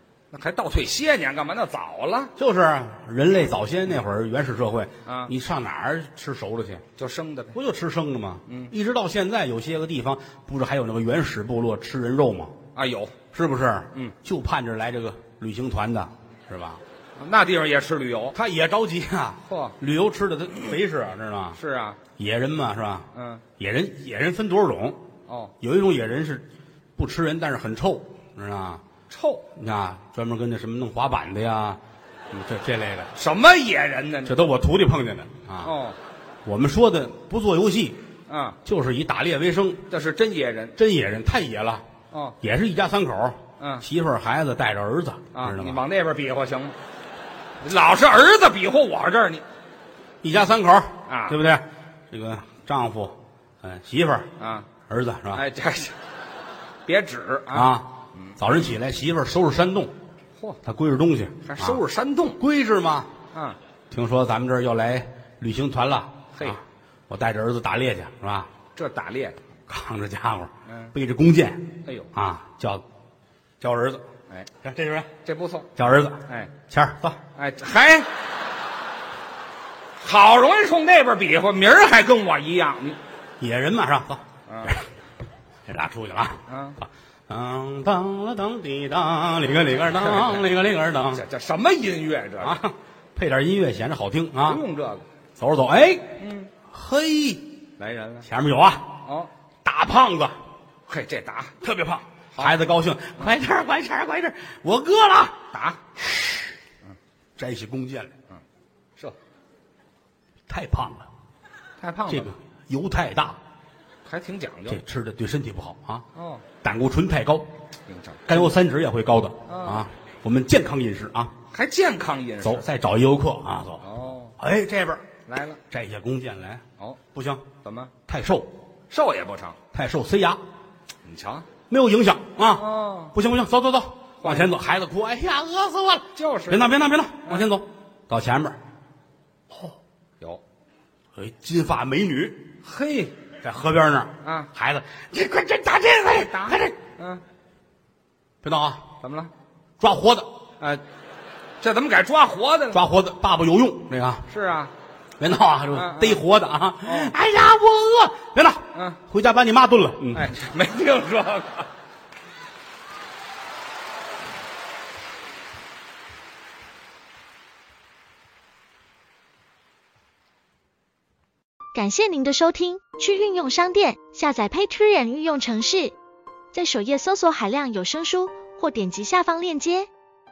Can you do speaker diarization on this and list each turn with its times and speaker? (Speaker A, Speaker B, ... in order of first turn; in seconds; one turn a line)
Speaker A: 0.3-2.3
Speaker B: 2.4-6.8
Speaker A: 5.1-5.3
Speaker A: 7.0-7.6
Speaker B: 7.5-12.6
Speaker A: 8.5-8.7
Speaker A: 12.8-13.2
Speaker B: 13.3-16.8
Speaker A: 17.2-18.4
Speaker B: 18.4-21.6
Speaker A: 19.5-19.8
Speaker A: 21.6-22.0
Speaker B: 22.2-25.0
Speaker A: 23.1-23.4
Speaker A: 25.3-25.5
Speaker B: 25.6-26.5
Speaker B: 27.0-28.8
Speaker A: 29.1-29.4
Speaker B: 29.6-33.1
Speaker A: 33.1-34.3
Speaker B: 34.3-35.7
Speaker A: 35.6-36.0
Speaker B: 36.5-38.0
Speaker A: 38.3-38.6
Speaker B: 38.6-39.9
Speaker A: 39.9-40.8
Speaker B: 40.8-41.9
Speaker B: 42.4-45.8
Speaker A: 43.6-43.9
Speaker A: 45.3-46.8
Speaker A: 47.6-49.4
Speaker B: 50.2-54.3
Speaker A: 51.1-51.4
Speaker A: 54.4-54.7
Speaker B: 54.9-55.5
Speaker A: 55.3-56.0
Speaker A: 56.9-58.4
Speaker B: 57.5-59.9
Speaker B: 60.6-61.8
Speaker A: 61.4-62.4
Speaker B: 62.4-63.1
Speaker A: 63.3-63.6
Speaker B: 63.9-68.5
Speaker A: 66.3-66.6
Speaker A: 68.8-69.4
Speaker B: 69.7-72.8
Speaker A: 70.7-70.9
Speaker A: 71.8-72.1
Speaker B: 73.6-74.0
Speaker B: 74.6-75.1
Speaker A: 75.2-75.7
Speaker B: 75.8-77.2
Speaker A: 76.3-76.5
Speaker A: 77.3-78.1
Speaker A: 80.0-83.0
Speaker B: 83.4-84.8
Speaker A: 84.5-84.8
Speaker B: 85.7-91.2
Speaker A: 86.5-86.8
Speaker A: 89.9-90.4
Speaker A: 91.1-92.6
Speaker B: 92.4-94.6
Speaker A: 94.4-95.0
Speaker B: 95.4-97.5
Speaker A: 96.2-96.5
Speaker A: 97.8-98.3
Speaker B: 98.2-99.0
Speaker A: 99.0-99.3
Speaker B: 99.6-100.4
Speaker A: 100.9-101.6
Speaker B: 101.6-105.4
Speaker A: 105.5-105.8
Speaker B: 106.0-106.5
Speaker B: 107.4-108.1
Speaker B: 110.5-111.1
Speaker A: 111.8-112.3
Speaker B: 112.1-113.4
Speaker A: 114.0-114.8
Speaker B: 114.7-116.1
Speaker A: 116.1-116.4
Speaker B: 116.6-117.5
Speaker A: 117.9-118.4
Speaker B: 118.3-121.3
Speaker A: 119.5-119.8
Speaker A: 121.5-122.7
Speaker B: 122.4-123.8
Speaker A: 123.8-124.3
Speaker B: 124.4-125.0
Speaker A: 125.3-125.6
Speaker B: 125.7-127.5
Speaker A: 127.6-127.9
Speaker B: 128.1-128.5
Speaker A: 128.9-129.6
Speaker B: 129.7-130.4
Speaker A: 131.0-131.4
Speaker B: 131.7-138.6
Speaker A: 132.6-133.1
Speaker A: 134.2-134.5
Speaker A: 136.1-136.7
Speaker B: 141.1-142.5
Speaker A: 142.6-143.1
Speaker B: 143.4-146.8
Speaker A: 144.2-144.5
Speaker A: 146.2-147.2
Speaker B: 148.4-148.9
Speaker A: 149.0-149.3
Speaker B: 149.8-150.3
Speaker A: 151.6-152.8
Speaker B: 152.7-154.3
Speaker A: 154.3-154.7
Speaker B: 155.2-160.3
Speaker A: 155.7-156.2
Speaker A: 156.8-157.1
Speaker A: 158.7-159.0
Speaker A: 160.1-161.7
Speaker C: 171.7-175.9
Speaker C: 176.5-179.9